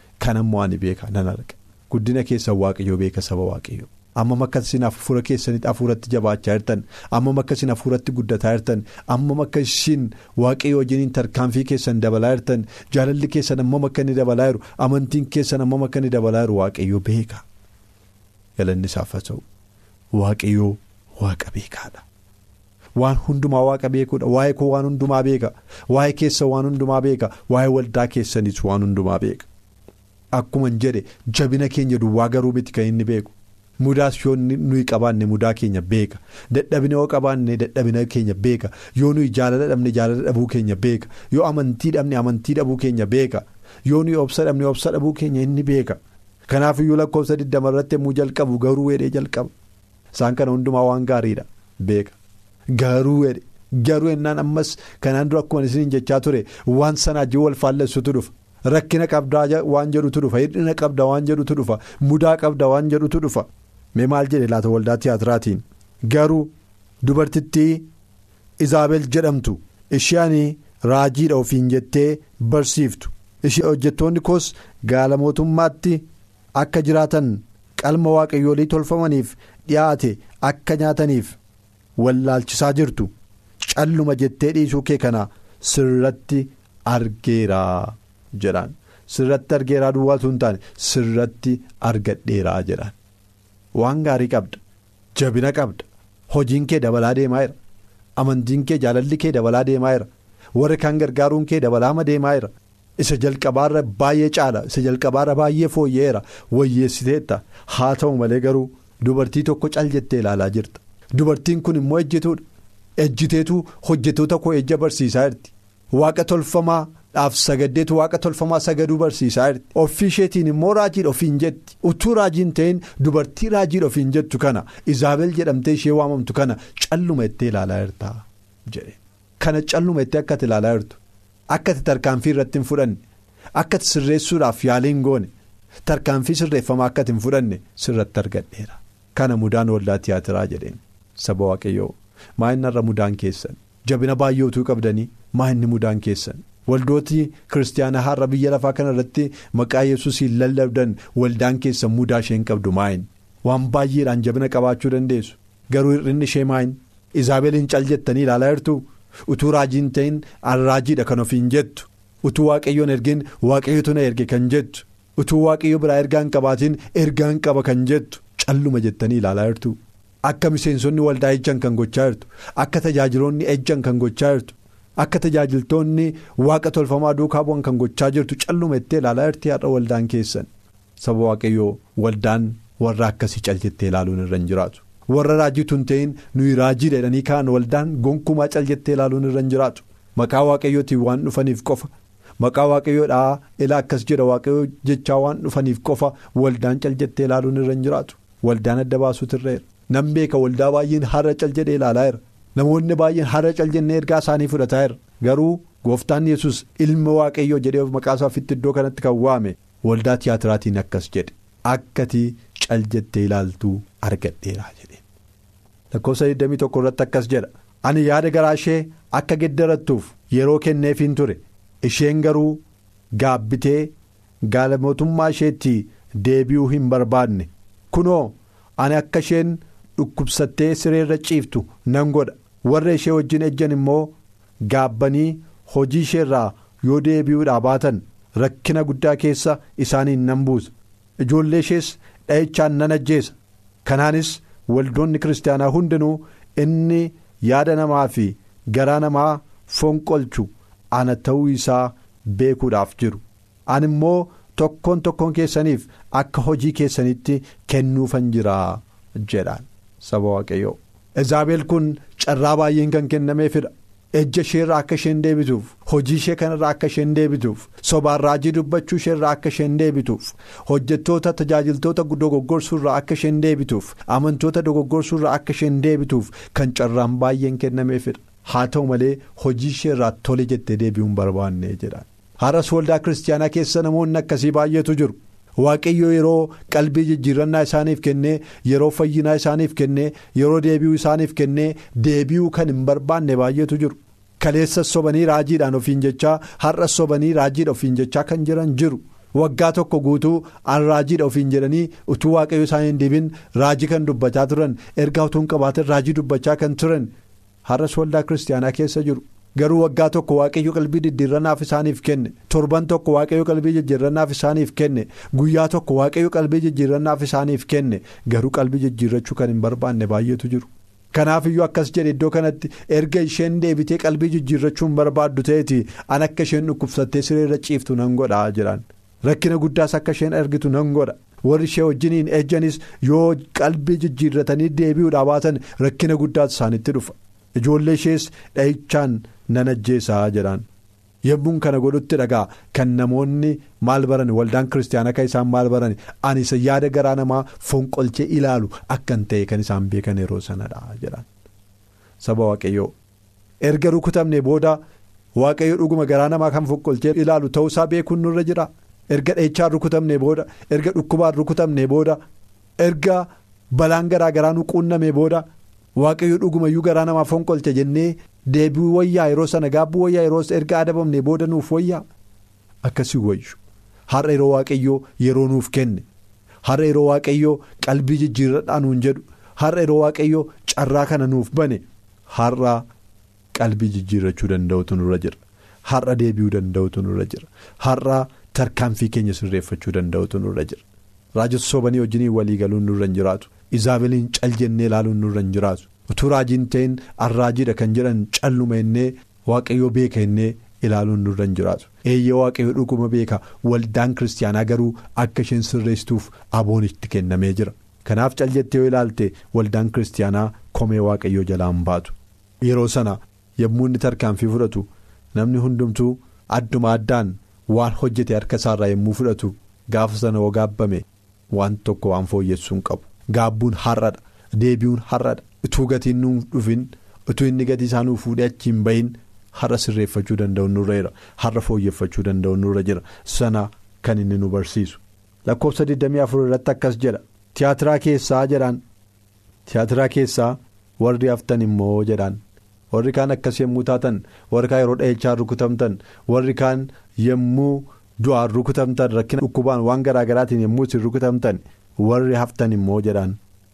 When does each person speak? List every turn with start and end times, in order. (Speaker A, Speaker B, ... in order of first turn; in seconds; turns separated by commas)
Speaker A: 0.2-17.4, Speaker A: 18.6-19.4, Speaker A: 20.1-22.0, Speaker A: 22.9-29.5, Speaker A: 30.3-49.5, Speaker A: 50.1-52.1, Speaker A: 52.7-66.5, Speaker A: 67.0-67.9, Speaker A: 68.6-76.0, Speaker A: 76.5-81.4, Speaker A: 82.0-83.1, Speaker A: 83.6-93.0, Speaker A: 93.7-94.6, Speaker A: 95.2-97.5, Speaker A: 98.2-112.4, Speaker A: 113.0-131.0, Speaker A: 131.5-133.0, Speaker A: 133.6-135.3, Speaker A: 135.8-215.0, Speaker A: 215.9-222.6, Speaker A: 223.2-223.9, Speaker A: 224.4-234.1, Speaker A: 234.6-240.7, Speaker A: 241.2-307.1, Speaker A: 307.6-340.6, Speaker A: 341.2-351.3, Speaker A: 352.2-352.9, Speaker A: 353.6-354.8, Speaker A: 355.4-362.2, Speaker A: 362.8-372.0, Speaker A: 372.8-376.0, Speaker A: 376.6-382.9, Speaker A: 383.5-390.8, Speaker A: 391.3-438.8, Speaker A: 439.6-442.4, Speaker A: 442.9-453.4